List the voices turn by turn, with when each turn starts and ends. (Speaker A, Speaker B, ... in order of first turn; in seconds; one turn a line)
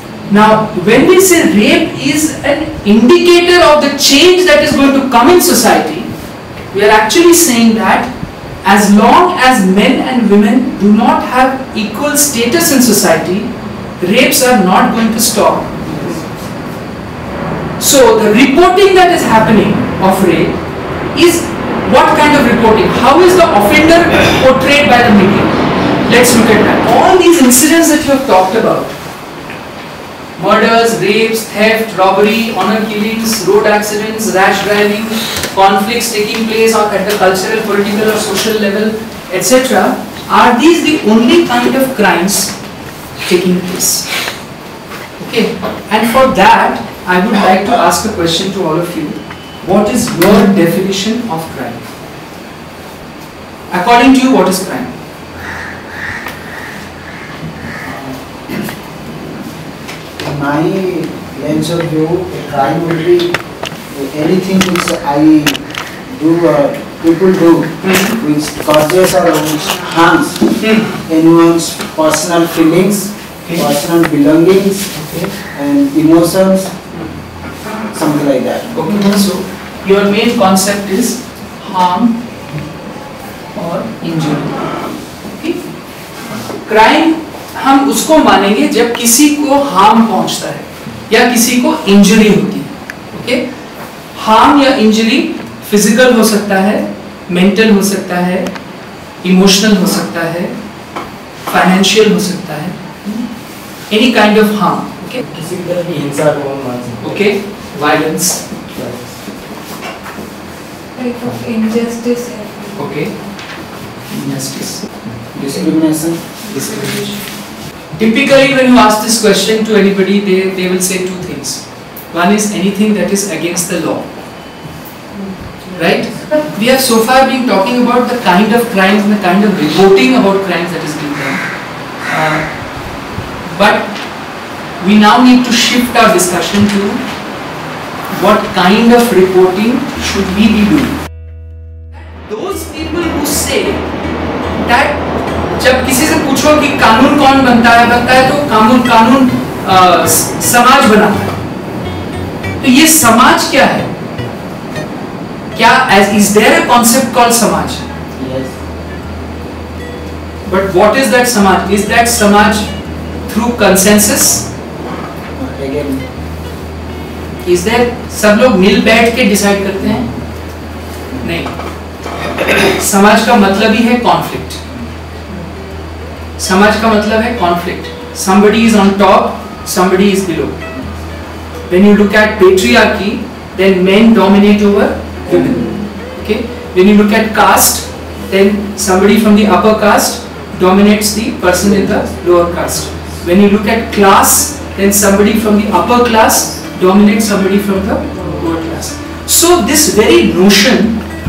Speaker A: 0.3-6.1
Speaker A: 6.7-8.1
Speaker A: 8.6-16.2
Speaker A: 17.8-20.6
Speaker A: 21.1-28.9
Speaker A: 30.4-42.5
Speaker A: 43.2-44.1
Speaker A: 45.2-51.8
Speaker A: 53.7-54.9
Speaker B: 57.8-58.2
Speaker B: 60.2-63.4
Speaker B: 63.9-76.7
Speaker A: 67.8-68.2
Speaker A: 70.6-70.9
Speaker A: 74.9-75.3
Speaker B: 77.9-78.9
Speaker A: 78.7-82.2
Speaker A: 83.5-84.7
Speaker A: 85.2-85.6
Speaker A: 86.6-93.4
Speaker A: 94.1-98.5
Speaker A: 99.2-100.5
Speaker A: 101.5-103.2
Speaker A: 103.9-105.2
Speaker C: 105.3-107.1
Speaker A: 107.0-108.5
Speaker C: 108.7-109.1
Speaker D: 110.9-113.0
Speaker A: 112.8-113.1
Speaker A: 114.1-115.8
Speaker B: 115.5-116.2
Speaker A: 116.5-117.2
Speaker A: 118.0-124.1
Speaker A: 125.7-131.4
Speaker A: 132.0-132.5
Speaker A: 133.4-134.0
Speaker A: 134.8-137.0
Speaker A: 138.1-140.9
Speaker A: 142.2-143.8
Speaker A: 144.5-145.0
Speaker A: 145.6-151.4
Speaker A: 152.6-153.9
Speaker A: 155.5-157.9
Speaker B: 158.1-158.6
Speaker A: 160.4-162.7
Speaker A: 163.3-164.5
Speaker B: 165.3-166.0
Speaker A: 167.4-170.1
Speaker A: 171.2-171.5
Speaker A: 172.6-174.8
Speaker A: 176.4-180.7
Speaker A: 181.7-201.0